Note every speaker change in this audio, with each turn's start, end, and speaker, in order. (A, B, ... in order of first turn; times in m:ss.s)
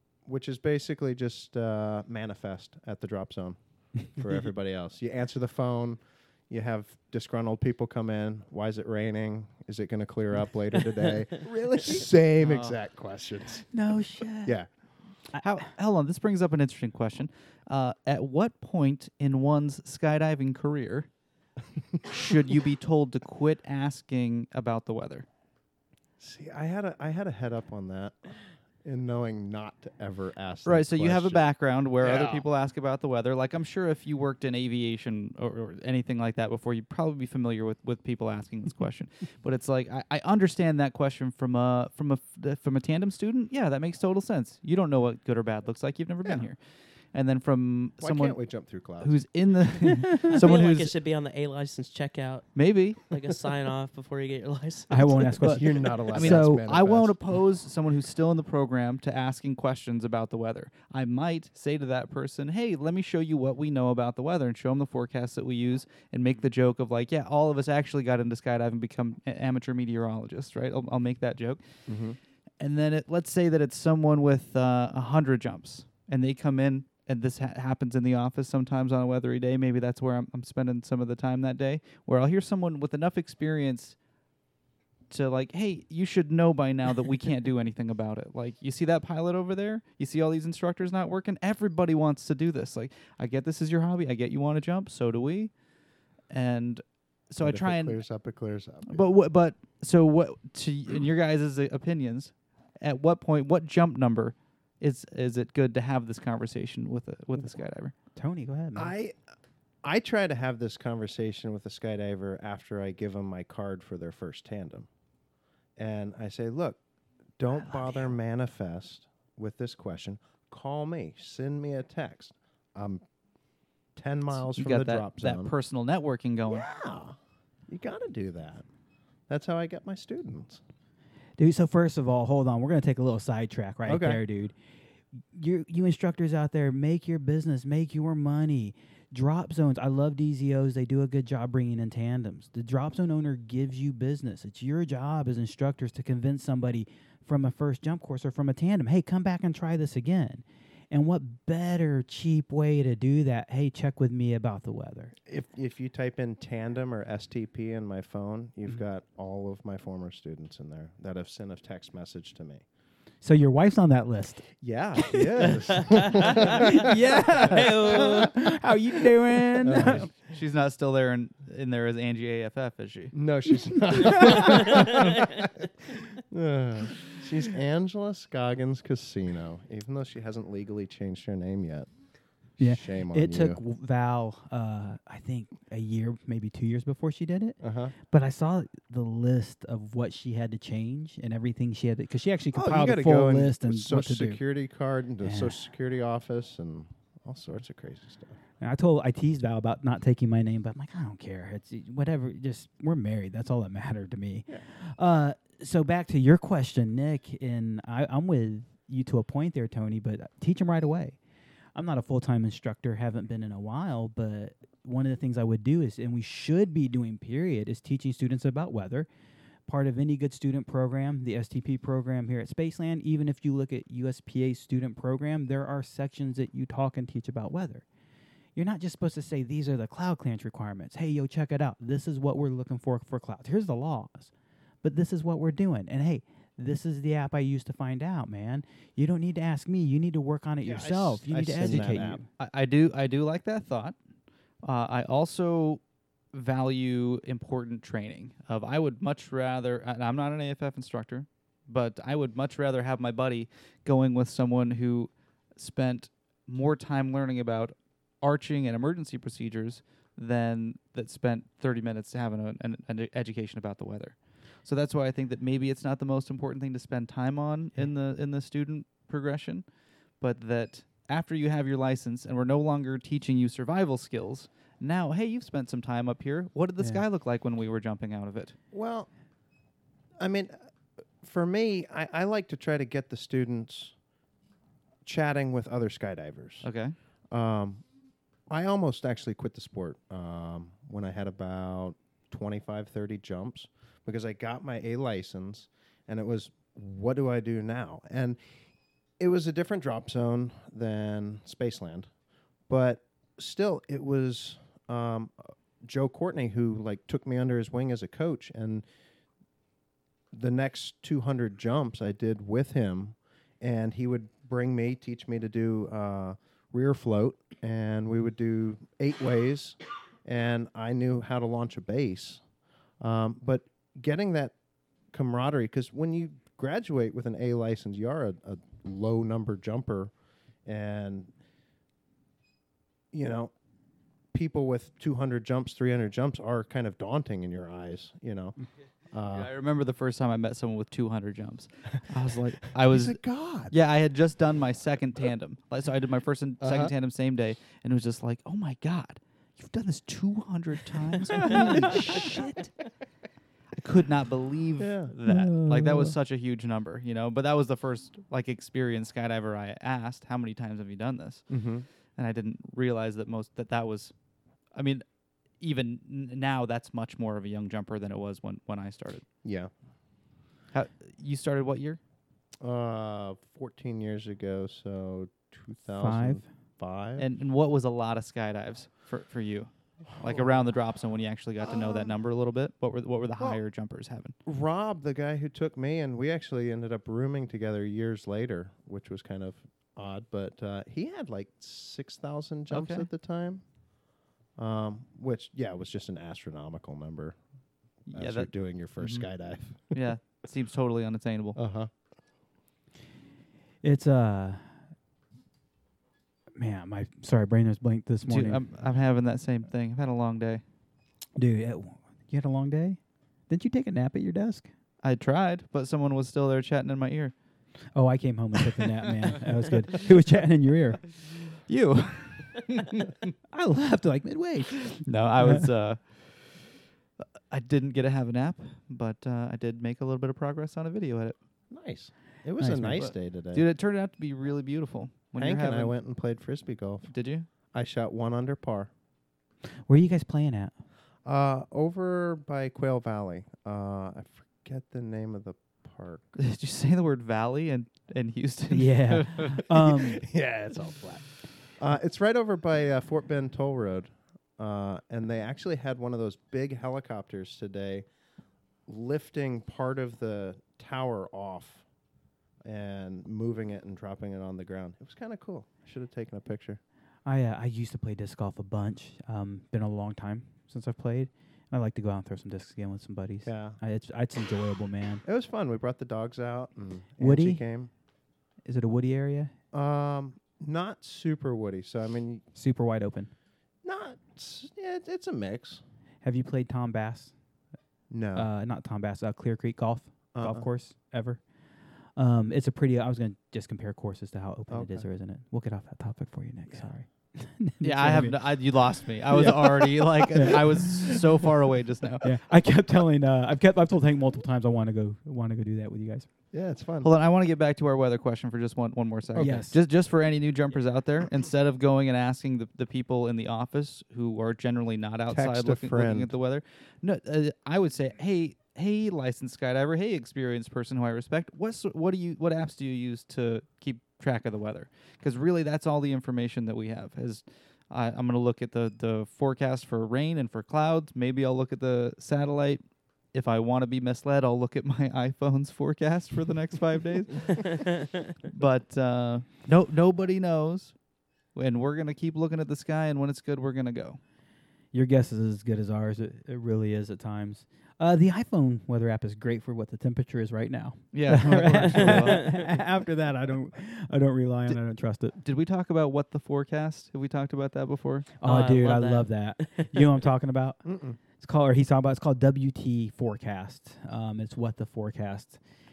0:00.2-0:13.7 A
0:12.4-0:12.8 B
0:13.7-0:14.5 C
0:15.4-0:21.1 B
0:22.1-0:25.2 B
0:26.2-0:31.4 A
0:30.6-0:46.6 B
0:32.0-0:32.4 A
0:47.1-0:48.4 B
0:48.0-0:49.2 A
0:49.0-0:50.9 B
0:50.3-0:52.5 D
0:52.5-0:53.1 B
0:53.1-0:55.3 D
0:54.9-0:56.6 C
0:55.4-0:57.1 A
0:56.1-1:11.6 B
1:11.9-1:12.2 A
1:12.6-1:24.0 B
1:25.1-1:35.5 B
1:36.3-1:38.0 B
1:37.4-1:39.0 A
1:38.9-1:47.9 B
1:48.1-1:48.9 C
1:48.8-1:49.1 A
1:49.8-1:54.9 A
1:55.8-1:56.8 A
1:57.4-2:03.0 A
2:03.9-2:05.5 A
2:04.4-2:06.7 B
2:06.5-2:07.2 A
2:07.7-2:08.6 A
2:09.3-2:10.6 A
2:11.4-2:14.5 C
2:13.8-2:14.2 A
2:15.3-2:35.1 C
2:35.2-2:42.6 A
2:43.2-2:50.1 C
2:44.6-2:46.9 A
2:45.7-2:46.6 D
2:47.4-2:48.3 D
2:47.5-2:48.3 A
2:49.6-2:50.1 A
2:49.7-2:53.1 B
2:53.1-3:01.9 A
2:53.9-2:54.6 C
3:02.6-3:03.6 A
3:02.6-3:14.4 C
3:07.6-3:07.9 A
3:12.5-3:18.4 A
3:15.2-3:15.5 C
3:18.6-3:31.2 C
3:31.7-3:39.1 C
3:39.7-3:47.8 C
3:48.6-3:54.3 C
3:54.8-4:02.2 C
4:00.6-4:02.2 A
4:01.6-4:03.9 B
4:04.6-4:05.8 B
4:06.3-4:29.6 B
4:30.2-4:38.5 B
4:38.7-4:39.1 A
4:40.2-4:40.5 A
4:41.2-4:43.9 A
4:45.0-4:46.7 A
4:46.6-4:46.9 B
4:47.3-4:47.8 A
4:48.5-4:58.4 A
4:59.2-5:02.1 A
5:02.7-5:08.8 A
5:10.3-5:22.4 A
5:23.0-5:24.5 A
5:25.1-5:30.1 A
5:30.6-5:31.3 A
5:33.1-5:33.5 A
5:34.3-5:38.6 A
5:39.1-5:39.5 A
5:39.3-5:52.7 B
5:42.8-5:43.7 A
5:46.6-5:46.9 A
5:51.4-5:52.2 A
5:51.5-5:51.9 C
5:53.8-6:01.6 B
5:54.8-5:55.1 A
5:55.2-5:56.1 C
6:01.5-6:01.8 A
6:02.2-6:04.1 B
6:04.7-6:05.0 B
6:05.6-6:09.2 B
6:09.4-6:09.7 A
6:10.7-6:12.0 B
6:12.6-6:17.2 A
6:16.0-6:16.4 C
6:17.2-6:24.3 B
6:20.1-6:20.6 A
6:21.7-6:22.1 A
6:24.4-6:33.6 A
6:32.7-6:33.1 B
6:34.6-6:37.4 A
6:38.1-6:39.2 B
6:38.1-6:40.0 A
6:39.9-6:41.6 B
6:41.6-6:41.9 A
6:43.8-6:44.6 C
6:46.6-6:48.6 C
6:48.3-6:50.6 B
6:51.4-6:54.7 C
6:55.0-6:57.3 B
6:57.9-7:01.0 C
7:01.7-7:03.1 B
7:03.5-7:05.6 C
7:05.0-7:06.8 B
7:07.5-7:11.4 B
7:11.7-7:13.6 A
7:12.6-7:13.1 C
7:13.0-7:15.9 B
7:15.4-7:17.1 A
7:17.1-7:17.5 B
7:17.7-7:18.9 A
7:19.9-7:20.7 C
7:21.2-7:26.3 A
7:26.4-7:29.6 B
7:28.7-7:30.2 C
7:29.8-7:38.0 A
7:38.9-7:41.8 A
7:42.6-7:46.8 A
7:47.2-7:55.2 C
7:53.4-7:53.8 A
7:55.2-7:57.9 A
7:57.2-7:57.6 C
7:58.6-7:59.5 C
7:59.7-8:02.4 A
8:02.5-8:03.3 C
8:03.8-8:05.8 A
8:06.2-8:07.3 C
8:08.1-8:08.5 A
8:08.3-8:11.4 C
8:10.3-8:10.7 A
8:12.2-8:18.4 C
8:14.7-8:15.0 A
8:17.8-8:22.3 B
8:19.3-8:21.2 C
8:22.2-8:26.3 C
8:26.5-8:27.1 A
8:27.0-8:52.8 B
8:29.3-8:29.6 A
8:29.4-8:29.8 C
8:35.3-8:36.3 A
8:53.3-8:57.9 B
8:58.5-9:00.9 B
9:01.5-9:04.2 B
9:04.9-9:15.4 C
9:11.1-9:12.5 B
9:12.0-9:12.5 D
9:15.4-9:18.3 B
9:18.4-9:20.8 C
9:18.4-9:20.0 D
9:20.8-9:21.2 A
9:21.4-9:25.6 C